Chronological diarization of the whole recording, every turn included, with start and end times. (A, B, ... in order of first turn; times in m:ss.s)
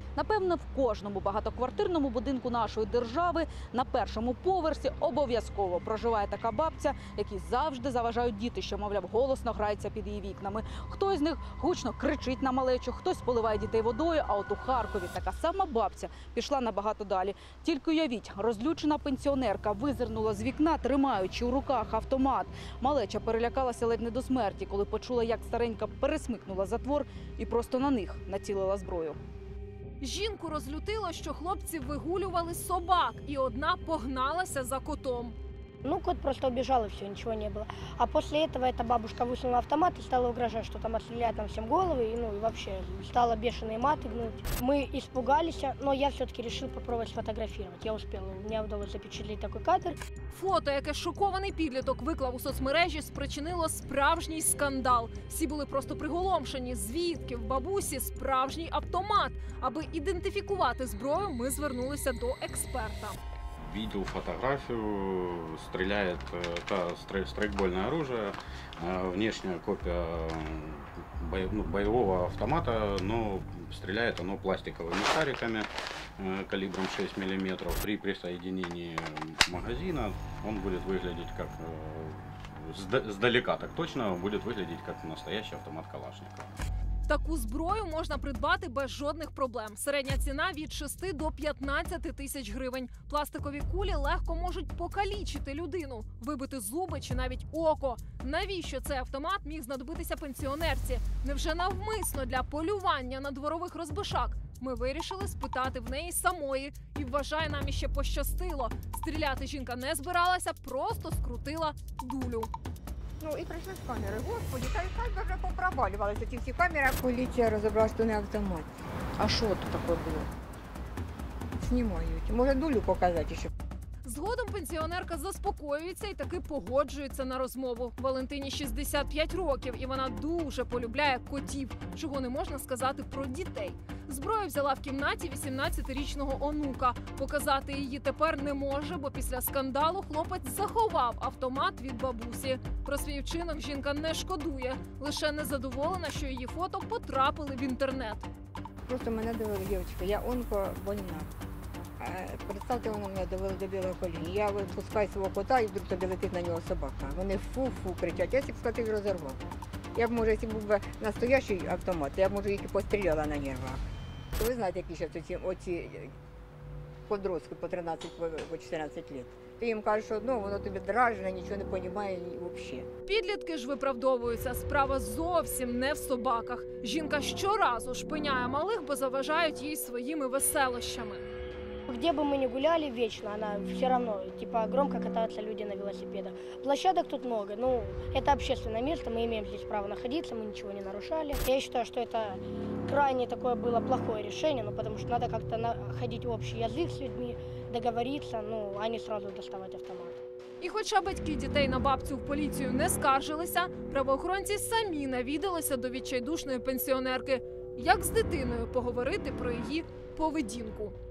0:00.1-0:29.2 A
0:30.0-0:35.4 B
0:35.8-0:50.0 C
0:50.3-1:03.2 B
1:03.6-1:26.5 D
1:27.0-1:52.5 B
1:53.2-1:58.7 E
1:59.2-2:00.1 A
2:00.0-2:00.2 E
2:01.6-2:03.5 E
2:04.0-2:28.3 B
2:28.8-2:31.3 E
2:32.0-2:39.4 E
2:39.9-2:43.8 E
2:44.4-2:46.1 E
2:47.1-2:52.9 E
2:53.0-3:01.2 B
3:01.9-3:20.2 C
3:20.6-3:30.9 B